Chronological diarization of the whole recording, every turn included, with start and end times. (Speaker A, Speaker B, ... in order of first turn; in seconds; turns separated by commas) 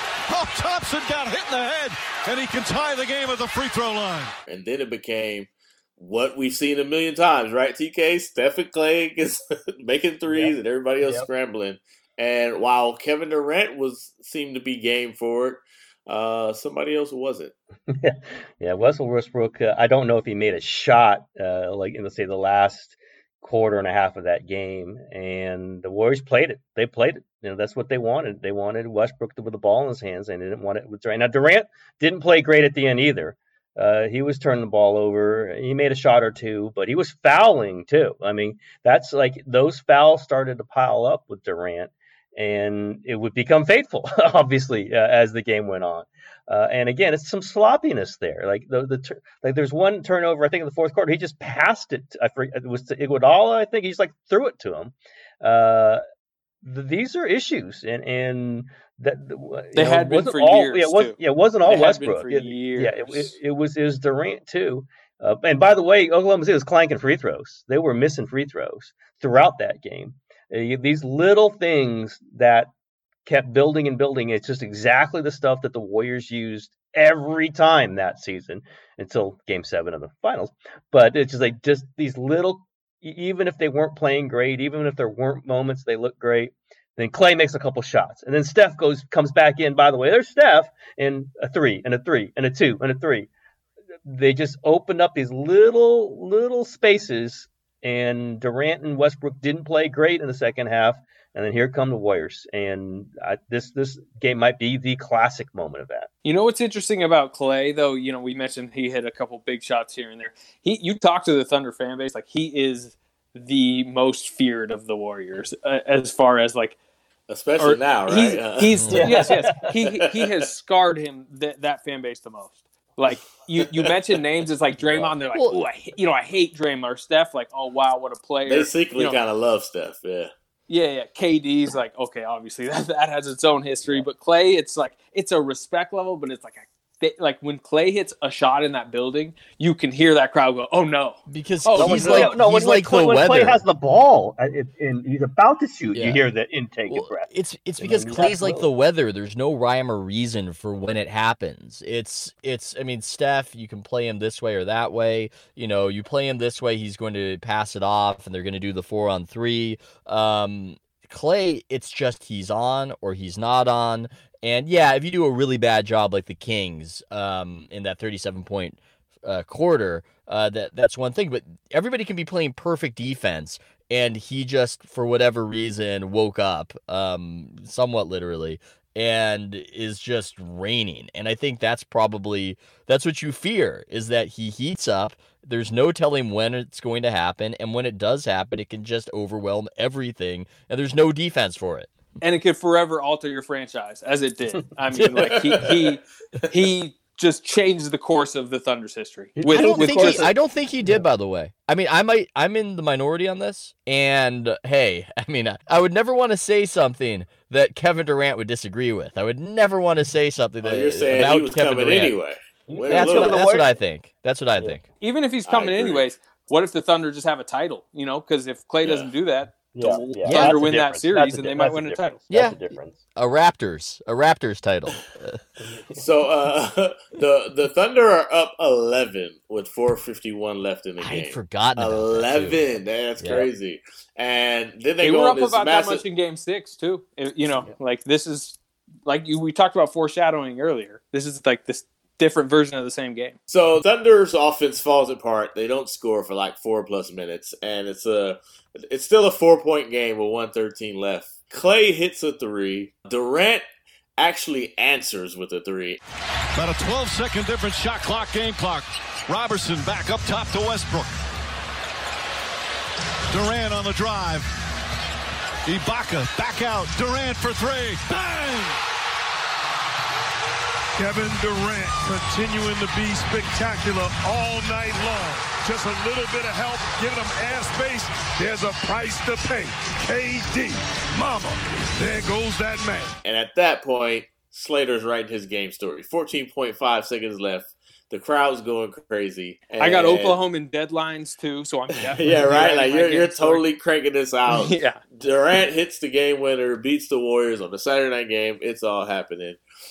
Speaker A: 0.3-4.3, Speaker B: 4.5-17.6, Speaker C: 10.3-11.3, Speaker C: 17.9-56.0, Speaker C: 56.6-72.7, Speaker D: 59.7-63.3, Speaker C: 73.3-93.3, Speaker C: 94.0-106.1, Speaker D: 106.2-116.8, Speaker B: 117.3-119.0, Speaker D: 117.6-129.2, Speaker E: 118.8-119.1, Speaker C: 118.9-119.7, Speaker E: 125.3-125.6, Speaker B: 128.5-130.3, Speaker D: 130.7-142.3, Speaker E: 141.3-143.6, Speaker C: 141.7-147.3, Speaker E: 145.9-146.2, Speaker E: 146.9-191.9, Speaker C: 147.8-148.7, Speaker D: 192.2-200.2, Speaker C: 199.4-200.3, Speaker E: 199.5-212.2, Speaker B: 210.6-213.5, Speaker C: 212.7-213.8, Speaker E: 212.9-214.8, Speaker D: 215.0-222.1, Speaker B: 215.5-216.1, Speaker B: 218.8-219.1, Speaker C: 219.8-223.0, Speaker E: 220.2-220.6, Speaker E: 222.3-222.6, Speaker E: 223.2-225.4, Speaker C: 225.6-226.0, Speaker B: 226.0-236.0, Speaker E: 231.0-232.6, Speaker E: 233.2-233.5, Speaker D: 235.0-243.4, Speaker B: 243.5-253.6, Speaker B: 254.2-256.0, Speaker A: 256.5-261.1, Speaker A: 263.3-264.5, Speaker A: 265.7-268.7, Speaker F: 271.0-283.1, Speaker B: 283.2-290.4, Speaker D: 289.8-293.6, Speaker B: 292.2-299.6, Speaker D: 294.5-295.0